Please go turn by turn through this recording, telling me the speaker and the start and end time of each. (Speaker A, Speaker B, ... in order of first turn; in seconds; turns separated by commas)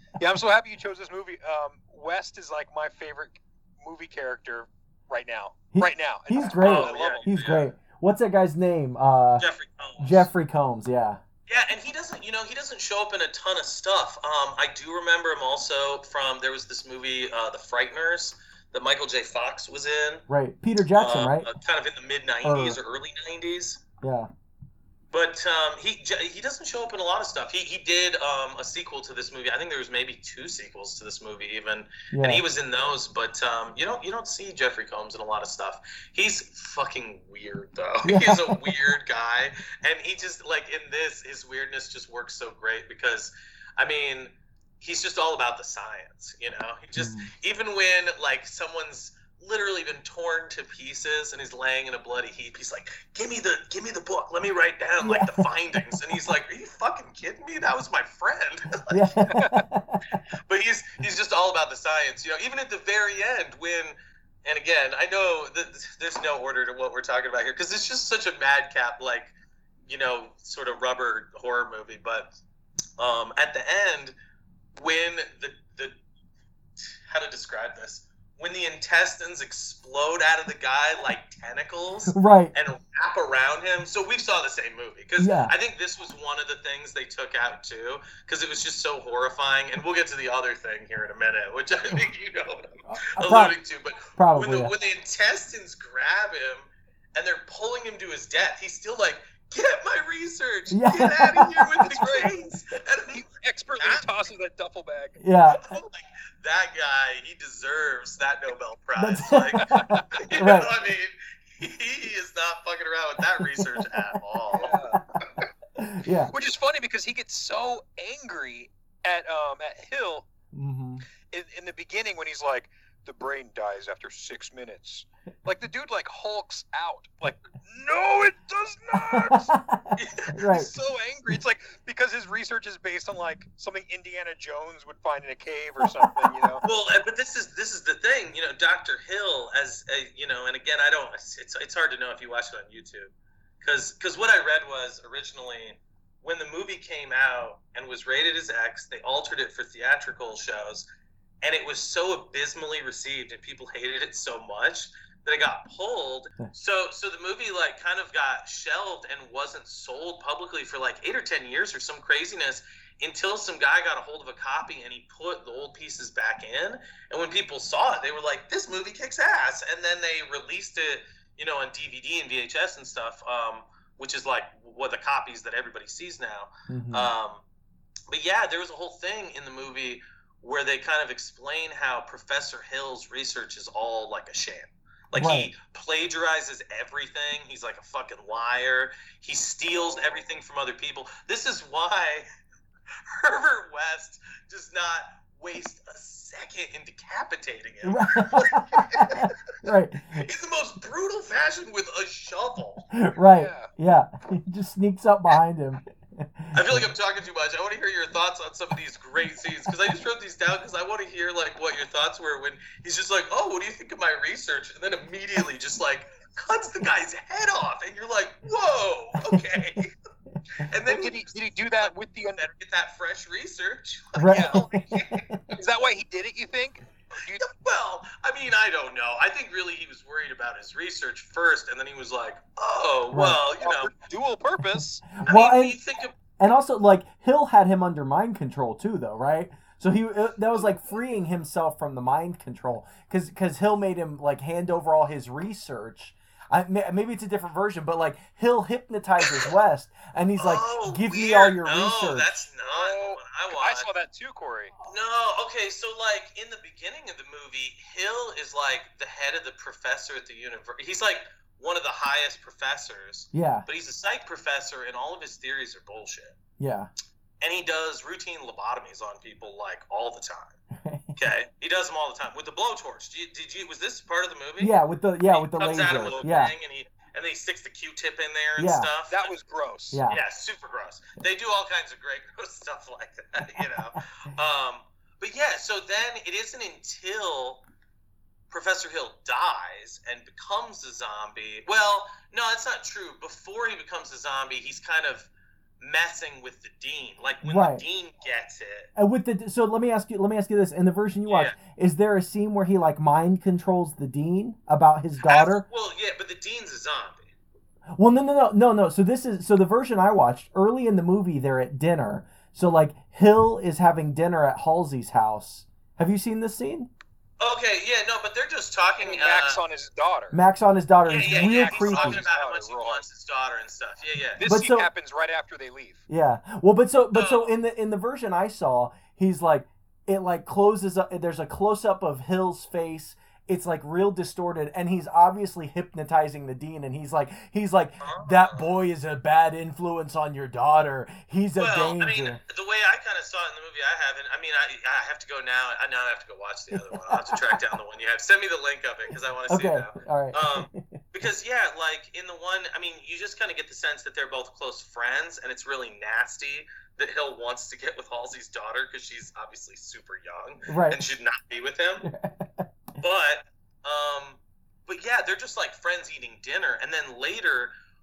Speaker A: 0.2-7.3, Speaker B: 5.7-9.5, Speaker C: 6.6-7.7, Speaker C: 9.4-10.3, Speaker B: 10.0-11.2, Speaker C: 11.5-20.2, Speaker B: 20.3-21.5, Speaker C: 20.9-23.8, Speaker B: 22.4-22.8, Speaker B: 24.0-24.3, Speaker C: 25.1-59.4, Speaker B: 32.1-32.4, Speaker B: 38.0-38.7, Speaker B: 47.0-47.3, Speaker B: 55.0-55.5, Speaker B: 58.9-60.2, Speaker A: 59.3-59.7, Speaker C: 60.5-69.3, Speaker C: 69.9-72.3, Speaker C: 73.0-74.2, Speaker C: 74.8-76.0, Speaker C: 76.8-103.2, Speaker B: 82.1-82.5, Speaker B: 85.2-85.5, Speaker B: 92.9-93.6, Speaker B: 94.2-94.7, Speaker B: 100.7-101.7, Speaker A: 101.8-102.3, Speaker A: 103.1-105.2, Speaker C: 103.8-104.1, Speaker B: 105.2-105.7, Speaker C: 105.5-114.8, Speaker B: 109.0-110.7, Speaker A: 109.7-110.0, Speaker B: 113.8-114.2, Speaker A: 114.5-115.0, Speaker B: 115.8-116.3, Speaker A: 116.3-120.3, Speaker B: 120.5-121.1, Speaker A: 121.3-129.5, Speaker B: 129.1-130.7, Speaker C: 130.0-130.4, Speaker A: 130.5-136.7, Speaker B: 135.8-136.6, Speaker C: 136.6-150.9, Speaker C: 151.4-177.4, Speaker B: 176.7-177.1, Speaker C: 178.1-192.3, Speaker B: 185.2-185.5, Speaker A: 189.8-190.2, Speaker C: 193.1-199.3, Speaker B: 197.8-200.3, Speaker C: 200.1-202.9, Speaker B: 202.9-206.9, Speaker A: 203.3-203.7, Speaker C: 206.5-219.9, Speaker C: 220.6-225.3, Speaker A: 220.9-222.4, Speaker B: 224.2-225.4, Speaker A: 224.3-224.7, Speaker A: 225.5-227.5, Speaker C: 227.4-233.9, Speaker B: 233.1-233.4, Speaker A: 233.6-235.0, Speaker B: 235.2-235.8, Speaker C: 235.2-236.2, Speaker B: 236.4-252.4, Speaker C: 250.4-253.9, Speaker A: 252.7-254.7, Speaker C: 254.9-266.4, Speaker B: 263.3-263.7, Speaker B: 266.6-266.9, Speaker C: 267.4-270.6, Speaker B: 270.7-271.1, Speaker C: 271.1-274.8, Speaker B: 274.6-276.5, Speaker C: 275.3-279.3, Speaker B: 278.6-278.9, Speaker A: 279.1-280.0, Speaker B: 279.9-280.2, Speaker C: 280.1-287.6, Speaker C: 288.5-298.9, Speaker B: 297.4-297.9, Speaker B: 299.0-305.6, Speaker C: 301.3-301.6, Speaker C: 305.2-307.3, Speaker B: 307.9-316.9, Speaker C: 317.4-319.6, Speaker A: 319.0-320.4, Speaker B: 320.3-322.2, Speaker C: 321.1-324.4, Speaker A: 321.2-323.1, Speaker A: 324.4-326.0, Speaker B: 324.5-324.9, Speaker B: 326.1-342.4, Speaker C: 327.1-327.5, Speaker C: 338.0-338.7, Speaker C: 341.6-362.1, Speaker B: 346.7-347.6, Speaker B: 349.5-350.9, Speaker B: 360.7-361.0, Speaker B: 362.0-362.7, Speaker C: 363.0-367.7